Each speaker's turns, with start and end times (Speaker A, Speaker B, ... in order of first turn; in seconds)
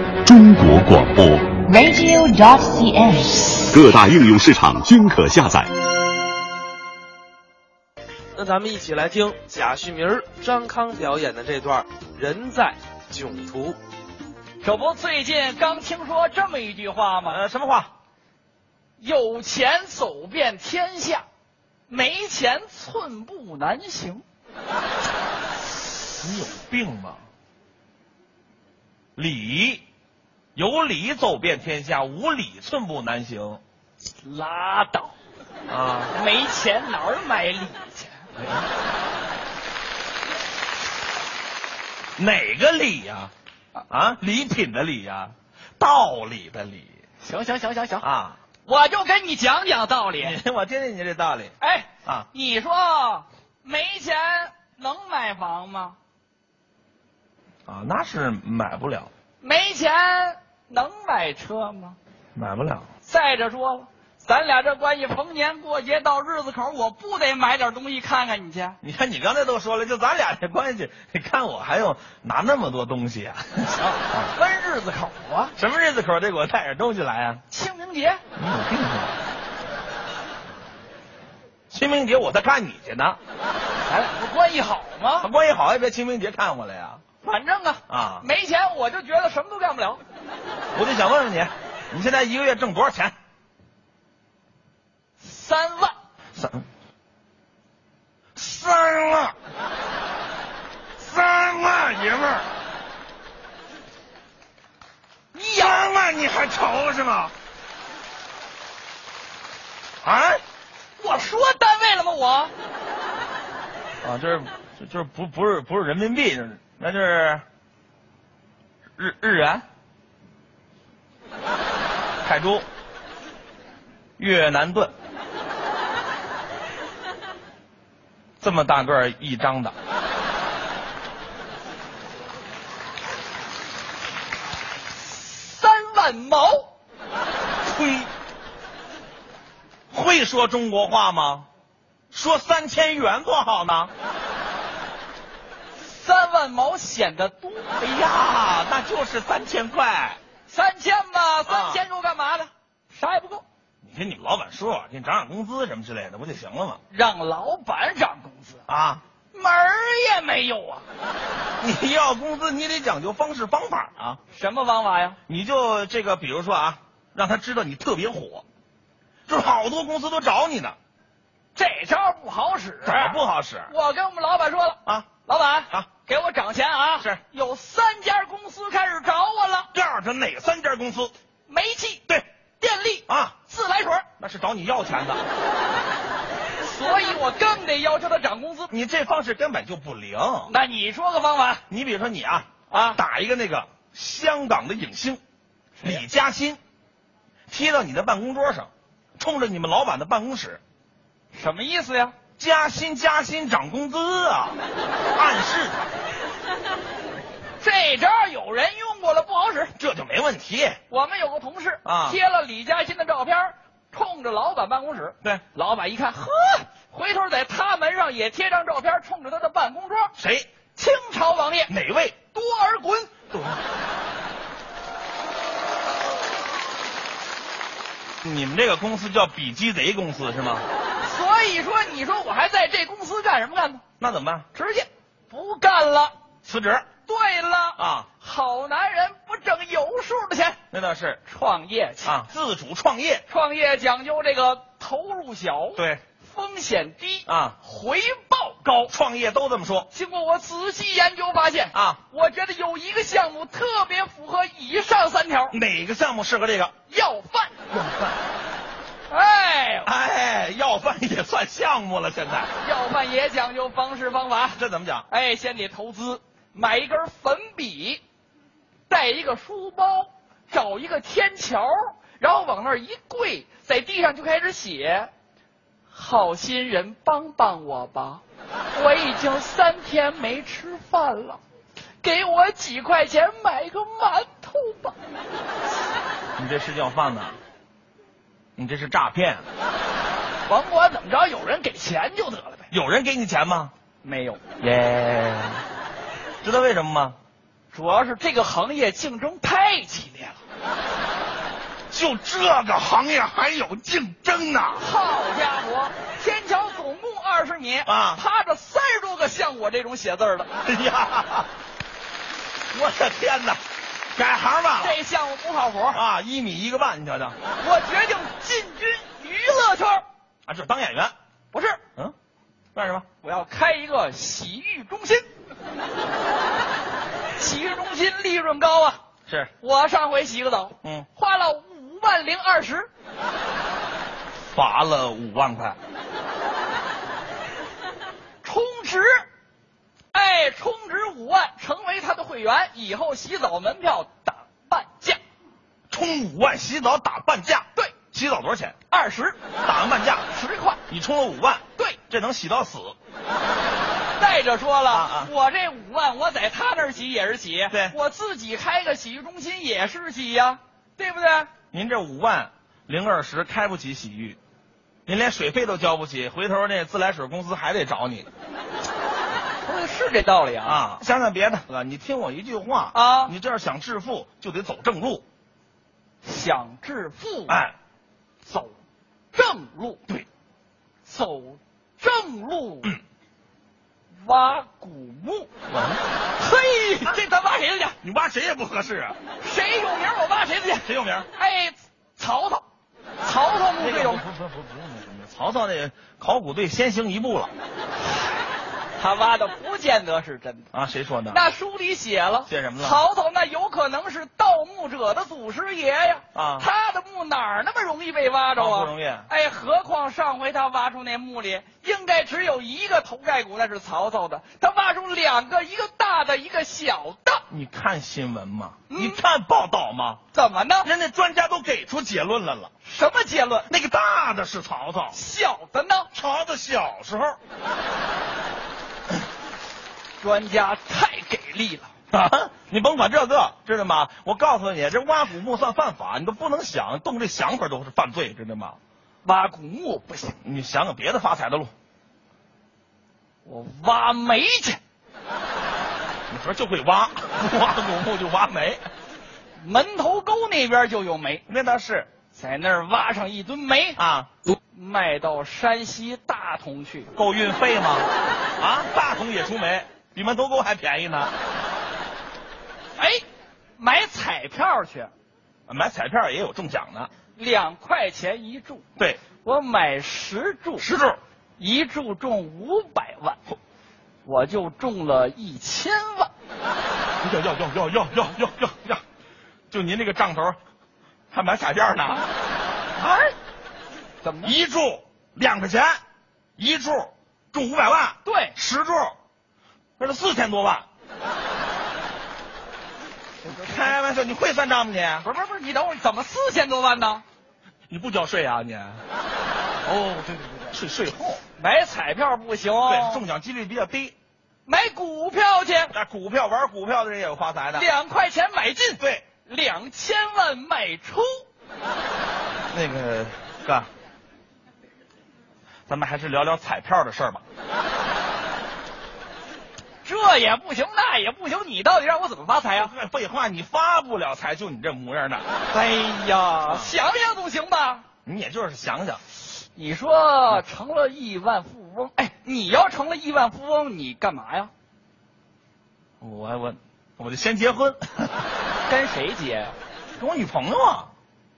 Speaker A: 0.2-1.6, 3.7-5.7
Speaker B: 1.7-3.6
Speaker C: 8.3-13.8
Speaker D: 14.6-17.4, 19.0-21.2, 21.9-24.2, 34.2-35.1, 36.1-38.3, 47.2-48.1, 48.6-50.4, 51.6-56.0, 59.4-62.0, 63.0-68.8, 73.7-75.5, 77.5-78.2, 83.8-85.3, 87.2-90.0, 95.2-95.9, 105.3-105.8, 111.0-112.5, 135.0-136.7, 145.8-147.8, 150.5-153.4, 156.9-158.6, 159.3-160.9, 164.3-165.2, 171.5-179.7, 181.5-182.1, 182.6-184.0, 186.6-188.7, 190.5-191.6, 192.7-193.0, 195.8-196.0, 201.3-202.1, 207.6-209.7, 210.9-220.1, 220.7-221.7, 222.3-223.1, 231.0-233.8, 234.5-236.1, 237.1-240.6, 241.2-242.2, 243.3-248.9, 249.9-255.6, 256.9-257.6, 259.1-259.9, 262.6-268.0, 268.9-275.1, 275.9-278.2, 278.7-281.4, 282.0-285.0, 290.5-292.7, 294.0-294.4, 297.7-300.4, 304.8-310.5, 314.8-316.0, 317.6-320.0, 321.5-321.8, 323.2-325.3, 327.4-329.0, 329.6-332.9, 338.4-339.2, 340.1-345.2, 348.9-349.4, 350.3-350.8, 354.2-361.5, 369.6-370.9, 372.9-373.3, 376.2-377.6, 378.4-378.7, 379.3-380.0, 381.1-383.0, 384.2-385.5, 386.4-388.0, 389.4-392.6, 393.2-394.2, 398.0-400.7, 401.3-417.4, 418.9-419.2, 420.3-420.9, 422.8-423.7, 425.1-426.1, 430.2-431.9, 439.2-440.4, 443.4-444.8, 449.6-451.4, 452.3-454.0, 454.7-457.1, 463.0-463.2, 463.8-465.1, 467.3-468.8, 469.4-470.9, 471.6-473.4, 474.2-476.3, 483.0-483.3, 484.2-484.6, 488.2-488.6, 493.4-493.8, 495.2-497.2, 499.8-500.8, 501.6-503.2, 504.6-505.9, 507.7-511.4, 520.0-522.9, 525.7-528.0, 529.6-534.7, 538.9-539.8
Speaker E: 17.2-17.9, 26.2-27.2, 29.1-29.8, 30.6-33.6, 35.7-36.1, 42.2-43.3, 43.9-46.9, 48.0-48.4, 50.2-51.5, 57.7-59.1, 62.3-62.9, 68.8-74.3, 75.5-77.4, 78.3-79.1, 81.7-83.2, 85.2-87.0, 87.9-88.2, 90.7-93.1, 96.3-96.6, 98.3-99.3, 101.0-102.5, 105.5-107.3, 110.0-110.4, 114.0-117.4, 119.0-119.6, 122.2-122.7, 124.2-124.9, 128.4-129.7, 137.7-138.1, 139.9-141.5, 142.1-143.9, 147.8-150.2, 151.5-151.8, 153.8-156.8, 158.7-159.0, 161.6-164.2, 165.3-168.4, 169.3-170.8, 172.8-173.7, 179.7-181.1, 183.1-183.3, 184.2-185.2, 188.7-190.5, 191.7-195.2, 195.8-196.6, 197.5-200.6, 202.4-204.6, 205.1-205.9, 209.8-210.8, 211.8-212.2, 220.2-220.5, 221.7-222.2, 223.3-223.6, 228.2-230.7, 234.0-234.5, 236.4-236.9, 237.8-238.1, 240.7-241.2, 242.0-243.2, 245.8-246.0, 247.3-247.6, 248.9-249.9, 251.7-252.0, 255.5-256.7, 257.7-258.2, 259.8-262.5, 264.5-265.1, 286.4-287.4, 288.6-289.4, 292.7-293.7, 294.6-295.6, 296.4-297.2, 301.9-304.8, 307.9-308.2, 310.6-311.5, 312.7-313.6, 314.1-315.0, 315.9-317.4, 320.4-321.1, 322.7-323.1, 334.5-335.8, 345.9-348.8, 349.6-350.2, 350.9-352.9, 354.9-355.3, 361.7-364.4, 365.1-368.3, 370.6-375.2, 377.5-377.8, 385.7-386.0, 388.0-389.2, 390.8-391.3, 393.8-397.5, 400.7-401.4, 402.4-403.0, 406.3-406.7, 408.6-409.3, 417.5-420.2, 420.8-422.7, 423.7-425.2, 426.1-427.4, 432.1-438.8, 440.4-441.7, 446.3-448.8, 451.5-452.1, 454.0-454.3, 457.1-461.3, 465.7-467.1, 470.8-471.2, 477.2-479.0, 479.7-480.6, 481.3-482.2, 484.4-486.0, 486.6-489.1, 490.0-490.9, 493.4-495.2, 497.9-499.0, 500.7-501.4, 502.8-504.1, 505.9-507.9, 509.0-509.2, 512.7-513.9, 515.9-517.4, 522.7-525.5, 526.6-527.0, 528.2-529.2, 536.2-538.4, 540.2-541.1